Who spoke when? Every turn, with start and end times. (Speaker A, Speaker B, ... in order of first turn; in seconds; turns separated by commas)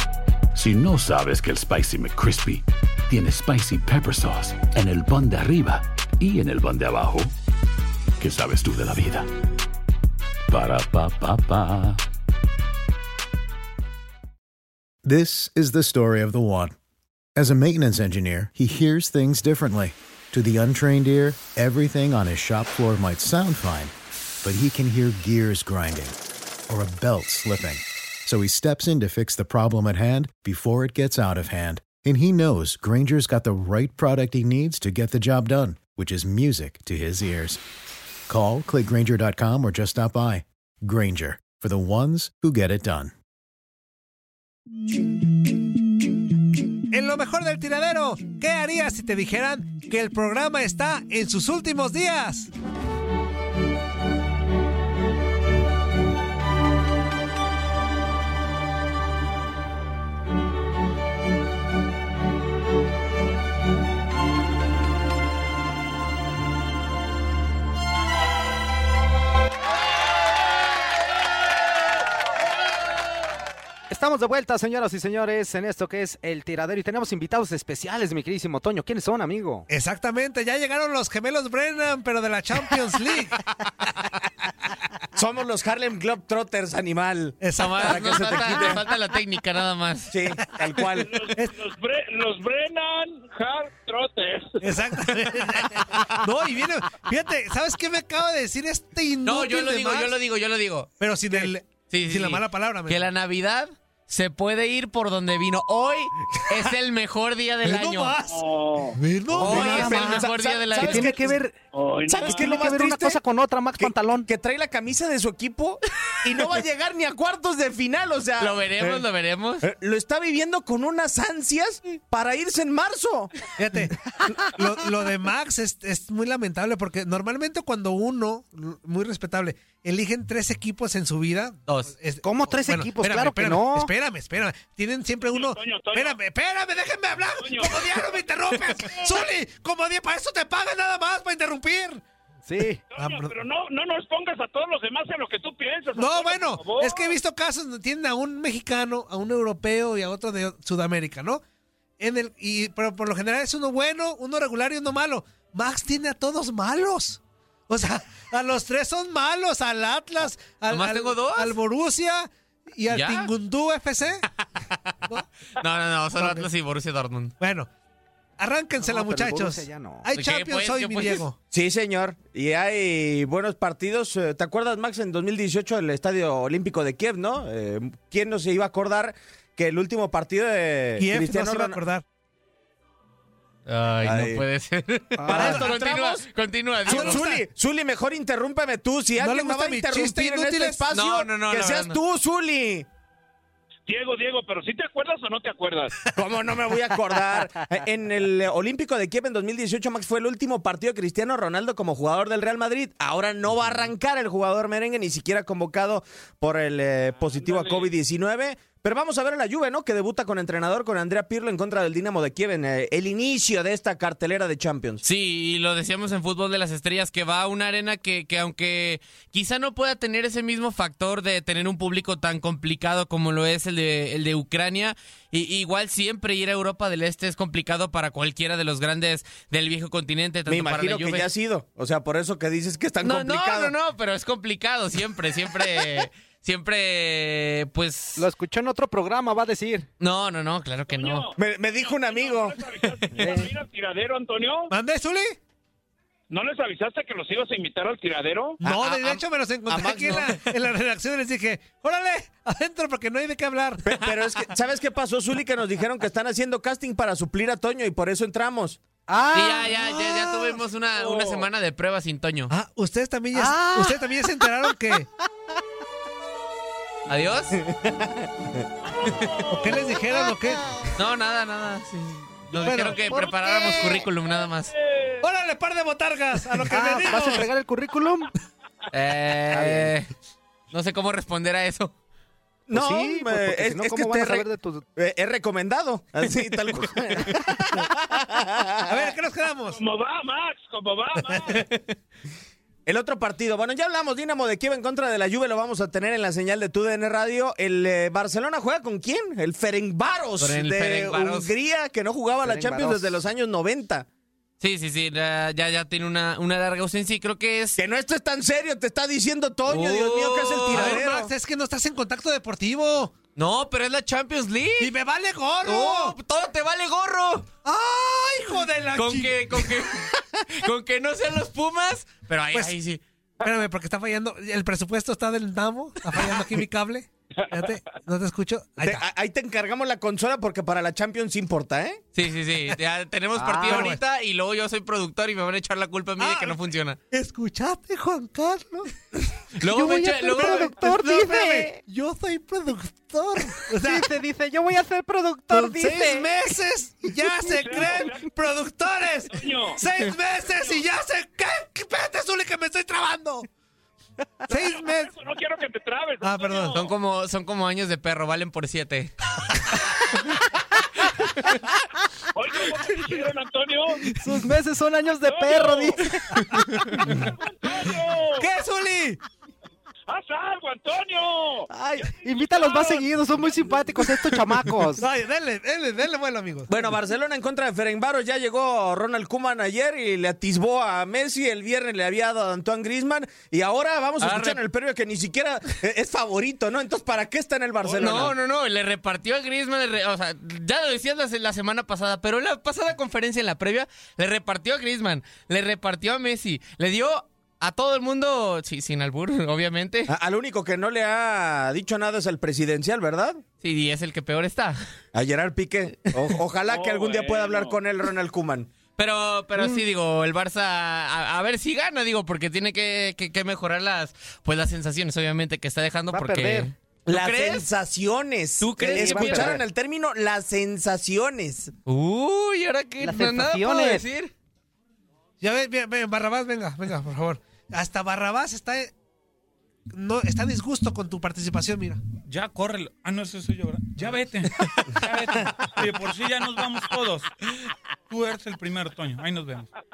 Speaker A: 0.5-7.3, Speaker A: 8.2-9.3, Speaker A: 10.5-12.0, Speaker B: 15.0-16.7, Speaker B: 17.3-26.1, Speaker B: 26.7-37.6, Speaker B: 38.3-43.1, Speaker C: 46.9-52.5, Speaker D: 73.9-79.7, Speaker C: 79.7-83.4, Speaker E: 85.1-88.8, Speaker C: 87.4-88.7, Speaker F: 87.5-90.1, Speaker E: 90.1-91.3, Speaker G: 91.0-94.6, Speaker C: 94.6-100.2, Speaker F: 99.2-108.1, Speaker C: 101.0-103.1, Speaker C: 107.6-108.4, Speaker G: 108.3-109.0, Speaker C: 109.0-109.8, Speaker F: 109.3-111.3, Speaker E: 109.3-111.4, Speaker D: 109.4-111.5, Speaker G: 111.7-112.6, Speaker E: 112.1-113.2, Speaker D: 112.2-114.3, Speaker E: 113.8-119.0, Speaker F: 118.4-119.6, Speaker E: 119.6-123.5, Speaker C: 123.6-124.0, Speaker C: 124.5-142.0, Speaker F: 131.7-131.9, Speaker D: 132.2-133.9, Speaker G: 135.3-136.2, Speaker G: 137.4-139.2, Speaker D: 142.4-142.8, Speaker G: 142.9-147.1, Speaker C: 142.9-143.3, Speaker C: 145.9-151.4, Speaker C: 152.0-164.2, Speaker F: 160.7-161.6, Speaker F: 162.9-163.3, Speaker F: 165.6-167.3, Speaker C: 166.2-166.5, Speaker C: 167.4-167.7, Speaker C: 168.4-171.4, Speaker D: 168.8-170.1, Speaker F: 170.1-171.2, Speaker E: 171.5-181.8, Speaker C: 181.0-182.0, Speaker F: 183.7-187.2, Speaker E: 184.0-184.4, Speaker D: 185.2-185.5, Speaker E: 185.2-186.2, Speaker C: 185.3-185.7, Speaker C: 186.8-187.4, Speaker E: 186.8-192.9, Speaker C: 189.2-190.8, Speaker F: 190.9-192.0, Speaker G: 193.9-195.9, Speaker E: 196.1-215.0, Speaker G: 207.2-207.9, Speaker F: 215.0-231.3, Speaker E: 230.5-233.7, Speaker F: 233.0-238.3, Speaker D: 238.2-239.9, Speaker F: 240.0-241.3, Speaker G: 240.9-244.7, Speaker E: 241.4-242.6, Speaker D: 243.2-243.5, Speaker C: 244.7-245.4, Speaker G: 246.3-248.6, Speaker C: 248.6-254.1, Speaker E: 248.6-250.6, Speaker E: 253.8-258.8, Speaker D: 259.1-259.7, Speaker F: 259.3-262.5, Speaker C: 262.5-265.1, Speaker D: 263.3-264.0, Speaker F: 267.1-267.6, Speaker E: 267.6-268.6, Speaker G: 268.9-270.0, Speaker C: 269.6-270.6, Speaker F: 270.9-274.7, Speaker C: 272.5-274.1, Speaker G: 272.6-275.3, Speaker C: 275.2-277.5, Speaker D: 276.7-278.3, Speaker F: 278.9-280.1, Speaker D: 279.5-279.9, Speaker F: 280.7-281.9, Speaker E: 282.7-289.1, Speaker D: 282.7-284.8, Speaker C: 288.9-289.8, Speaker G: 289.7-291.7, Speaker C: 291.3-291.6, Speaker E: 292.9-304.1, Speaker F: 300.4-301.5, Speaker D: 302.4-303.2, Speaker F: 304.6-307.8, Speaker E: 307.8-311.3, Speaker F: 309.7-311.0, Speaker C: 310.7-313.1, Speaker F: 313.4-314.9, Speaker C: 314.8-316.1, Speaker F: 315.6-317.5, Speaker C: 317.6-319.9, Speaker F: 318.9-323.0, Speaker C: 323.4-329.0, Speaker E: 328.8-332.0, Speaker F: 332.1-337.0, Speaker D: 333.4-333.9, Speaker C: 333.6-334.0, Speaker C: 336.2-336.6, Speaker C: 337.1-338.9, Speaker F: 339.6-340.8, Speaker C: 339.6-344.1, Speaker D: 340.2-341.8, Speaker D: 343.8-346.3, Speaker C: 345.5-353.5, Speaker G: 347.5-348.3, Speaker G: 349.3-349.8, Speaker C: 354.5-355.1, Speaker G: 354.7-356.9, Speaker C: 356.2-356.8, Speaker F: 356.7-359.1, Speaker G: 362.3-364.0, Speaker D: 364.1-366.4, Speaker G: 365.2-366.1, Speaker G: 367.1-368.5, Speaker C: 368.4-369.2, Speaker G: 370.1-373.6, Speaker E: 371.7-372.1, Speaker D: 372.0-375.0, Speaker C: 374.9-376.7, Speaker E: 376.7-388.4, Speaker F: 384.2-384.6, Speaker F: 387.8-400.1, Speaker E: 400.1-403.4, Speaker F: 403.6-404.8, Speaker E: 405.1-408.7, Speaker G: 406.6-407.8, Speaker F: 409.0-417.7, Speaker D: 416.1-416.7, Speaker E: 417.1-421.7, Speaker F: 418.6-419.6, Speaker D: 418.8-419.6, Speaker F: 421.9-424.3, Speaker D: 423.0-424.0, Speaker C: 425.4-428.9, Speaker C: 429.9-432.0, Speaker H: 432.3-437.3, Speaker H: 438.1-439.7